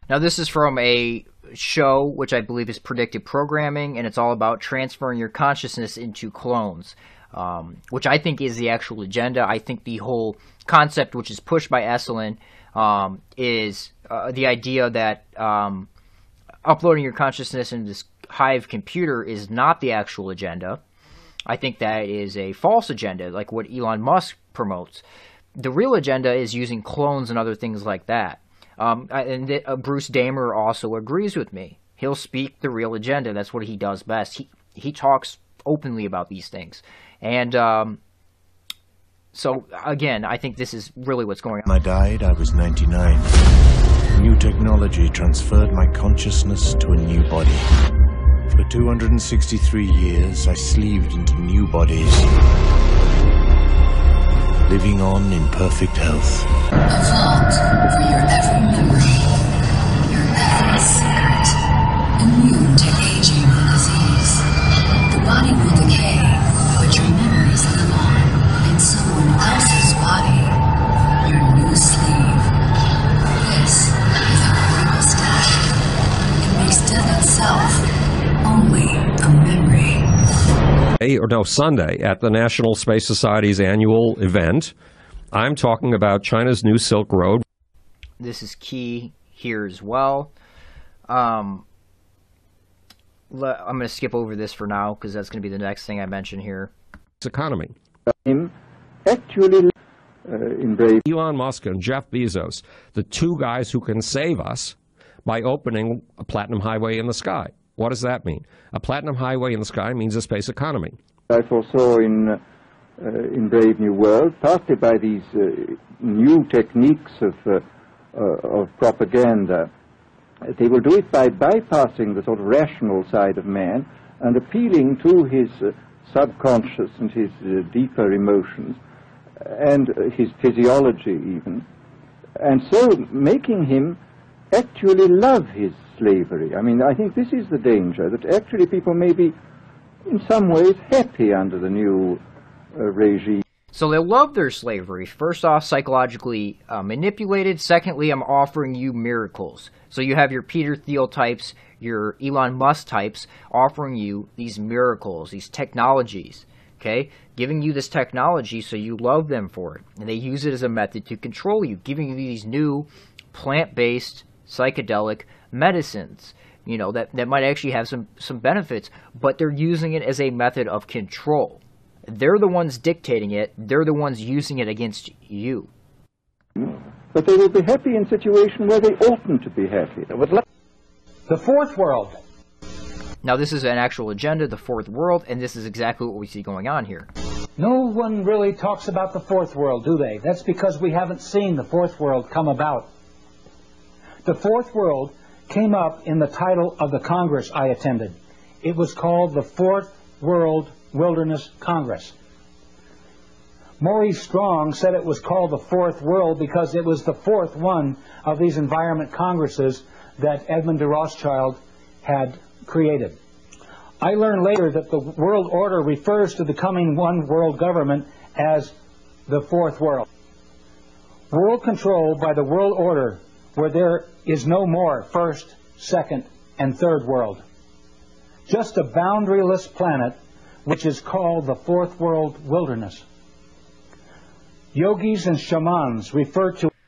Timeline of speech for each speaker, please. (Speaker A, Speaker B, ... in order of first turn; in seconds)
Speaker A: 0.1-15.9, 16.6-20.8, 21.5-25.0, 25.6-38.0, 39.3-41.7, 88.2-90.3, 91.1-91.6, 93.3-96.7, 143.7-175.7, 183.2-187.1
Speaker B: 41.6-43.3, 44.1-47.7, 48.5-52.3, 54.7-56.5
Speaker C: 56.9-59.2, 60.0-61.5, 62.2-64.4, 65.1-70.6, 71.2-72.5, 73.4-75.6, 76.4-77.8, 78.4-80.1
Speaker D: 81.0-84.7, 85.3-87.4, 97.2-97.7, 101.0-104.7, 105.2-111.0
Speaker E: 98.1-98.5, 99.0-99.7, 100.3-101.0, 111.3-112.4, 113.0-117.6, 118.1-119.7, 120.5-128.8, 129.4-131.6, 132.4-134.0, 134.5-139.3, 140.1-142.2, 142.8-143.4, 176.6-180.4
Speaker F: 181.3-182.2, 187.6-192.9, 194.2-202.1, 203.8-213.2, 214.0-218.7, 219.3-220.0, 221.3-227.4, 228.5-233.0, 234.7-236.7